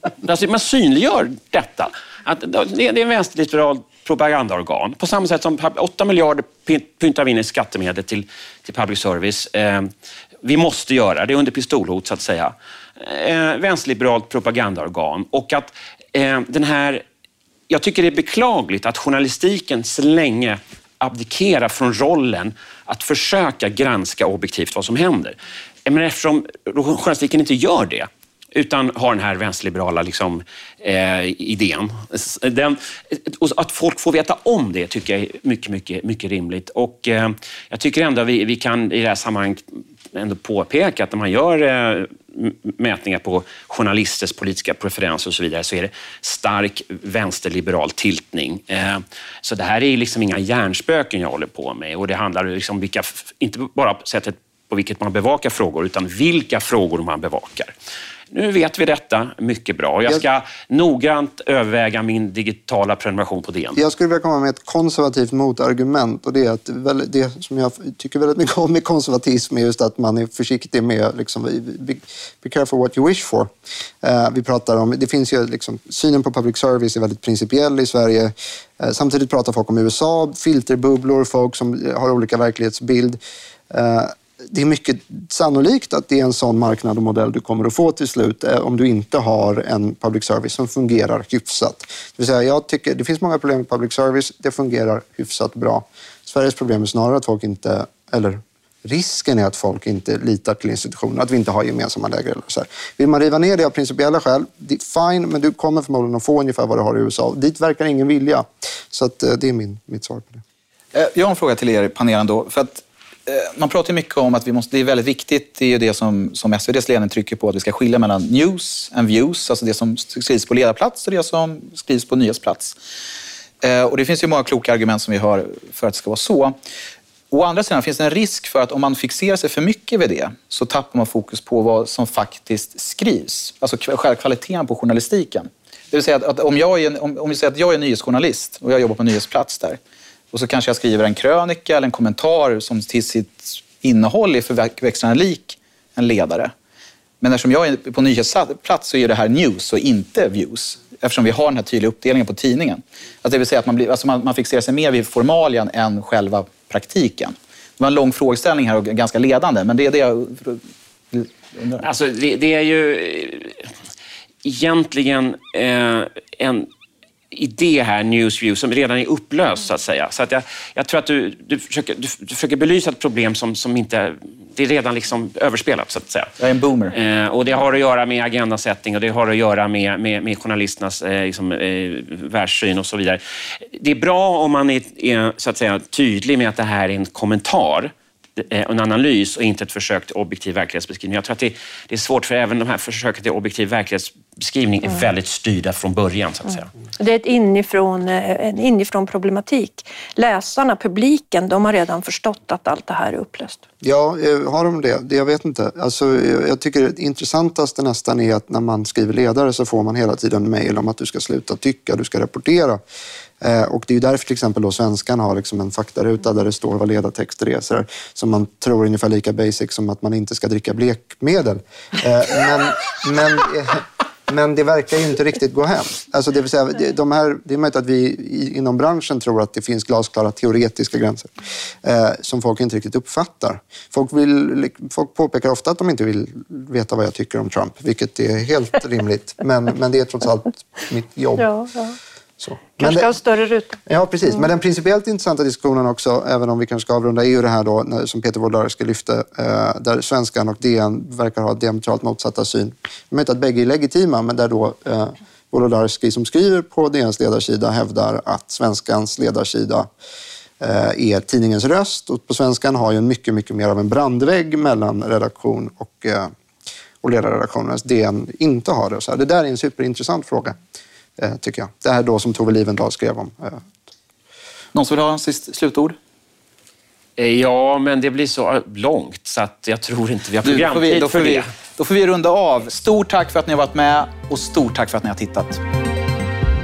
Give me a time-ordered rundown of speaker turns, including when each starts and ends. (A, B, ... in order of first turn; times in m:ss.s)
0:00.2-0:09.9 A
0:10.4-0:17.0 A
0:17.7-0:39.6 A
0:40.1-0:57.7 A
0:58.3-1:03.8 A
1:03.8-1:13.5 B
1:14.0-1:50.4 B
1:50.9-2:02.8 C
2:03.6-2:06.6 C
2:07.3-2:19.8 C
2:20.3-2:26.5 C
2:27.2-2:40.6 C
2:41.1-2:41.9 C
2:41.8-2:43.7 A
2:44.4-2:46.7 A
2:47.3-2:56.3 A
2:56.4-2:57.0 C
2:56.9-3:03.2 A
3:03.7-3:16.7 A
3:17.0-3:23.6 D
3:23.8-3:32.8 B
3:33.4-3:51.3 B
3:51.8-4:01.5 B
4:01.4-4:02.0 D
4:02.4-4:03.1 B
4:02.8-4:03.8 D
4:03.9-4:19.9 B
4:20.6-4:26.3 B
4:27.0-4:30.6 B
4:31.2-4:33.7 B
4:34.7-4:36.0 C
4:37.2-4:41.5 A
4:40.4-4:45.6 C